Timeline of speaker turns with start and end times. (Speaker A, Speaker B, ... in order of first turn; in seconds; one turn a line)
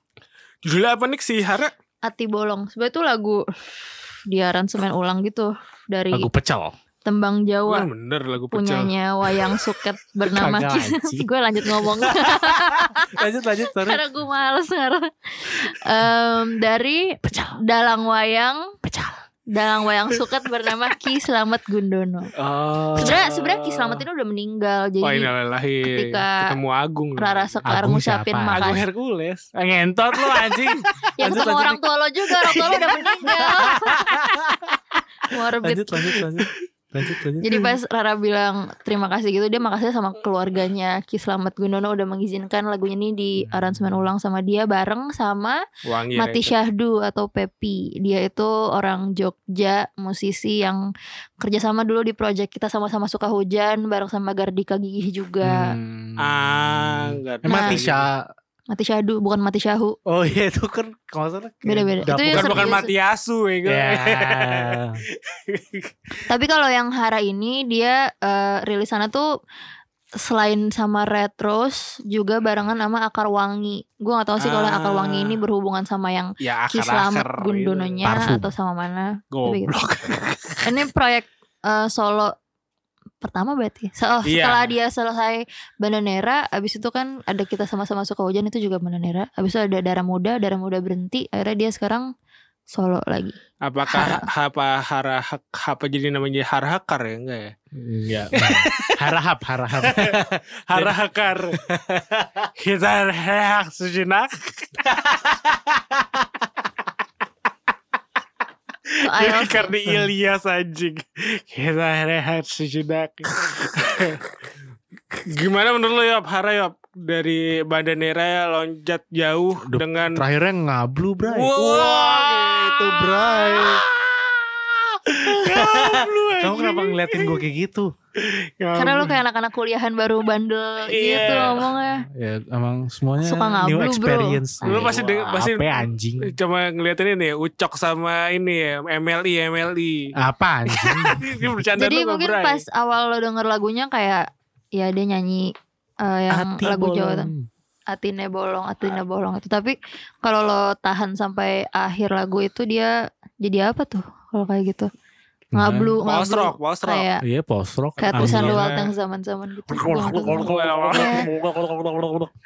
Speaker A: 0.6-1.7
Speaker B: 2.0-3.5
Speaker B: 4.3-6.3
Speaker C: 6.1-6.7
Speaker B: 7.0-7.9
Speaker A: 7.7-9.5
Speaker B: 8.5-18.7
Speaker C: 10.3-14.0
Speaker C: 17.2-17.6
Speaker C: 18.8-19.2
Speaker B: 19.5-22.3
Speaker C: 22.4-23.8
Speaker A: 22.4-23.3
Speaker B: 22.9-25.3
Speaker A: 25.0-27.6
Speaker B: 25.8-26.5
Speaker B: 27.2-28.8
Speaker C: 27.6-28.8
Speaker A: 28.5-29.5
Speaker C: 29.5-31.8
Speaker A: 30.2-30.6
Speaker B: 31.2-34.2
Speaker C: 32.4-34.8
Speaker B: 35.3-36.1
Speaker C: 35.6-37.6
Speaker B: 37.4-45.6
Speaker C: 43.4-44.0
Speaker A: 45.8-46.5
Speaker B: 46.1-50.8
Speaker B: 51.4-55.8
Speaker C: 55.4-58.3
Speaker A: 56.2-58.1
Speaker B: 57.4-57.8
Speaker B: 58.7-60.0
Speaker C: 60.0-62.8
Speaker B: 61.6-62.9
Speaker A: 62.3-65.9
Speaker C: 63.6-65.0
Speaker B: 66.3-69.3
Speaker B: 70.2-79.9
Speaker A: 74.4-75.4
Speaker A: 76.4-78.0
Speaker C: 78.0-78.5
Speaker A: 79.3-80.7
Speaker B: 80.6-82.3
Speaker B: 83.2-92.1
Speaker A: 84.2-84.7
Speaker B: 92.7-93.4
Speaker A: 93.6-97.5
Speaker B: 93.9-94.3
Speaker C: 97.8-101.0
Speaker A: 98.3-99.0
Speaker A: 99.8-101.6
Speaker C: 101.5-102.5
Speaker A: 102.6-105.4
Speaker A: 108.9-114.3
Speaker B: 109.0-109.7
Speaker A: 115.1-120.2
Speaker C: 119.7-123.8
Speaker A: 121.2-127.4
Speaker C: 125.2-127.9
Speaker A: 128.2-129.2
Speaker B: 128.8-132.0
Speaker A: 130.9-131.7
Speaker C: 131.3-136.3
Speaker B: 133.2-134.9
Speaker A: 134.6-140.1
Speaker C: 140.2-141.5
Speaker A: 140.7-142.6
Speaker B: 141.7-147.3
Speaker C: 146.3-147.5
Speaker B: 147.9-154.9
Speaker C: 155.5-155.9
Speaker B: 155.5-157.2
Speaker A: 156.0-157.1
Speaker C: 157.2-158.7
Speaker B: 158.0-161.3
Speaker A: 158.0-158.9
Speaker C: 159.7-162.3
Speaker A: 159.9-161.3